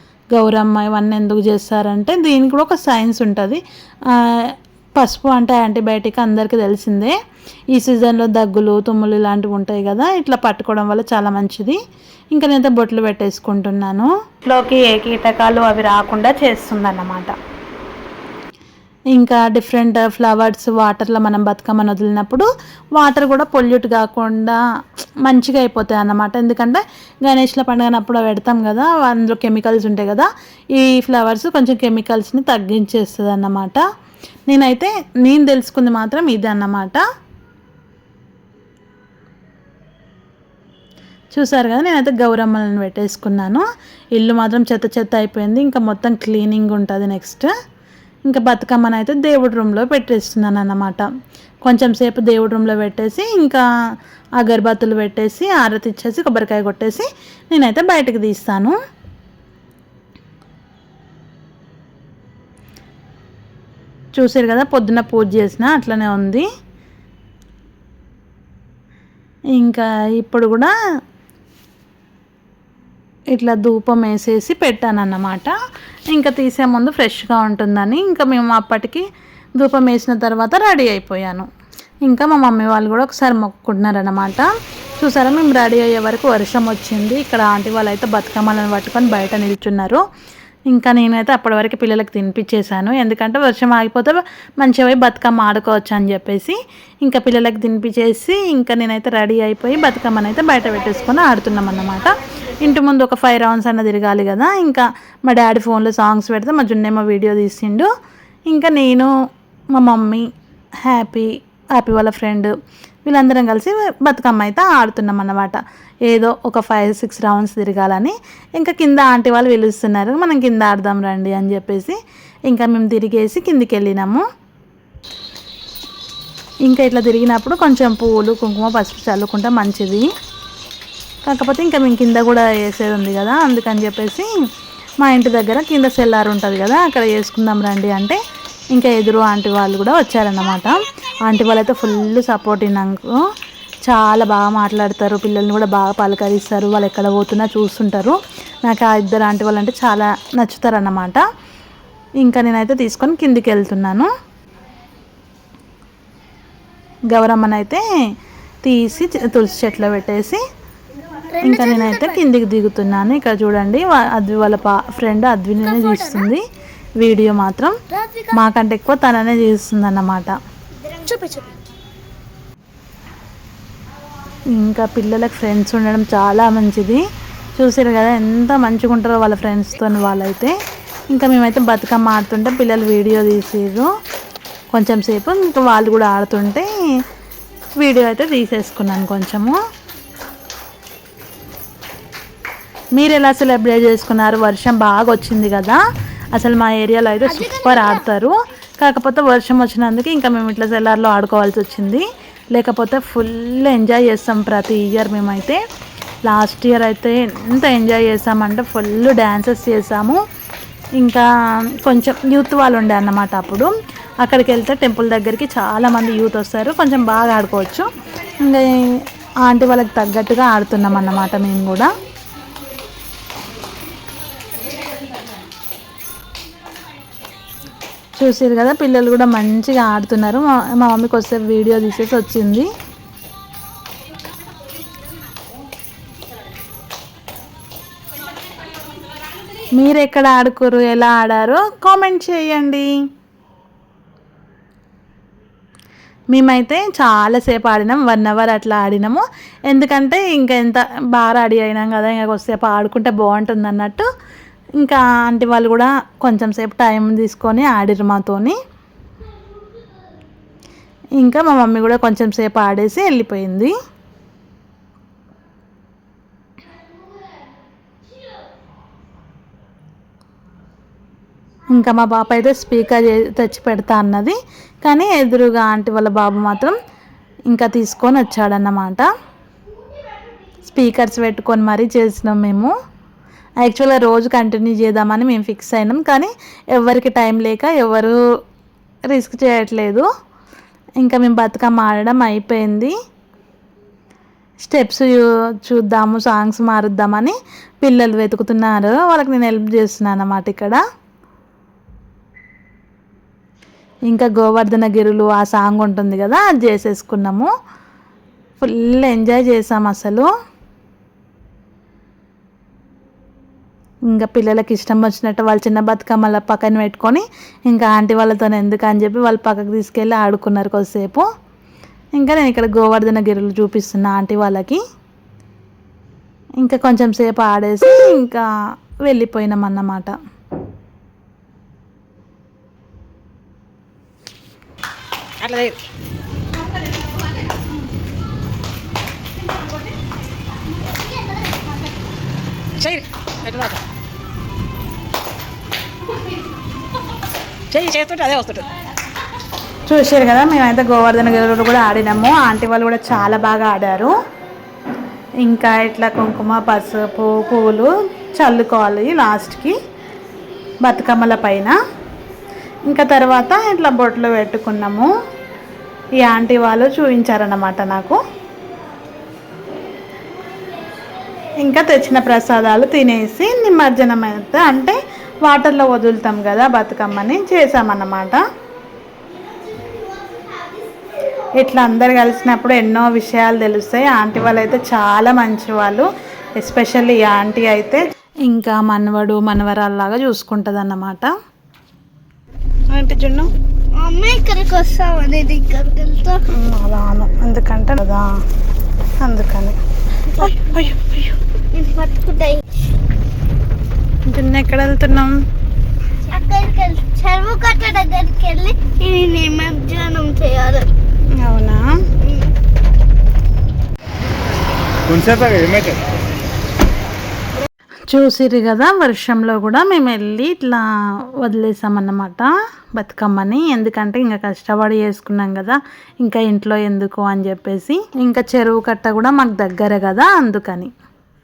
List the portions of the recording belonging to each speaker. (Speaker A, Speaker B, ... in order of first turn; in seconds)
Speaker A: 0.3-7.2, 7.7-11.8, 12.3-17.3, 19.1-24.6, 25.2-33.8, 34.5-37.0, 41.3-47.5, 48.3-51.1, 51.6-53.6, 54.4-58.8, 64.2-66.5, 69.5-70.7, 73.3-75.5, 76.1-79.0, 79.6-81.5, 82.0-84.5, 85.0-90.0, 90.7-107.9, 108.5-109.1, 109.7-110.3, 110.8-112.5, 113.1-124.2, 126.7-130.1, 131.2-134.3, 135.0-138.2, 138.7-143.2, 143.8-151.2, 152.2-154.1, 157.1-157.8, 158.6-160.4, 161.4-166.4, 167.0-167.8, 168.3-170.4, 174.5-177.0, 177.6-180.6, 181.1-183.9, 184.7-186.7, 187.8-189.6, 192.9-195.8, 196.3-205.6, 206.3-210.2, 211.0-211.3, 211.8-217.9, 218.4-221.9, 228.2-232.7, 239.7-242.9, 246.3-254.1, 254.8-258.6, 261.2-263.7, 271.7-276.8, 277.5-279.1, 280.6-282.7, 283.6-288.2, 289.1-290.1, 291.0-292.9, 294.6-300.8, 304.1-307.5, 308.6-310.3, 314.1-321.3, 322.2-324.8, 326.6-328.5, 329.1-330.1, 349.9-354.2, 355.4-359.8, 360.8-361.8, 362.9-365.1, 366.2-368.2, 371.6-378.4, 381.6-391.3, 392.9-393.5, 396.5-398.4, 399.2-399.8, 400.3-401.4, 404.3-405.4, 411.4-411.9, 418.1-420.9, 421.4-430.9
Speaker B: 161.3-162.2, 165.7-166.3, 167.9-168.3, 170.8-171.5, 197.4-198.0, 379.8-380.7, 394.0-396.4, 400.3-400.7, 401.7-402.6, 406.2-410.9, 412.2-412.5
Speaker C: 335.4-335.8, 342.8-343.8, 347.7-348.7, 415.1-416.0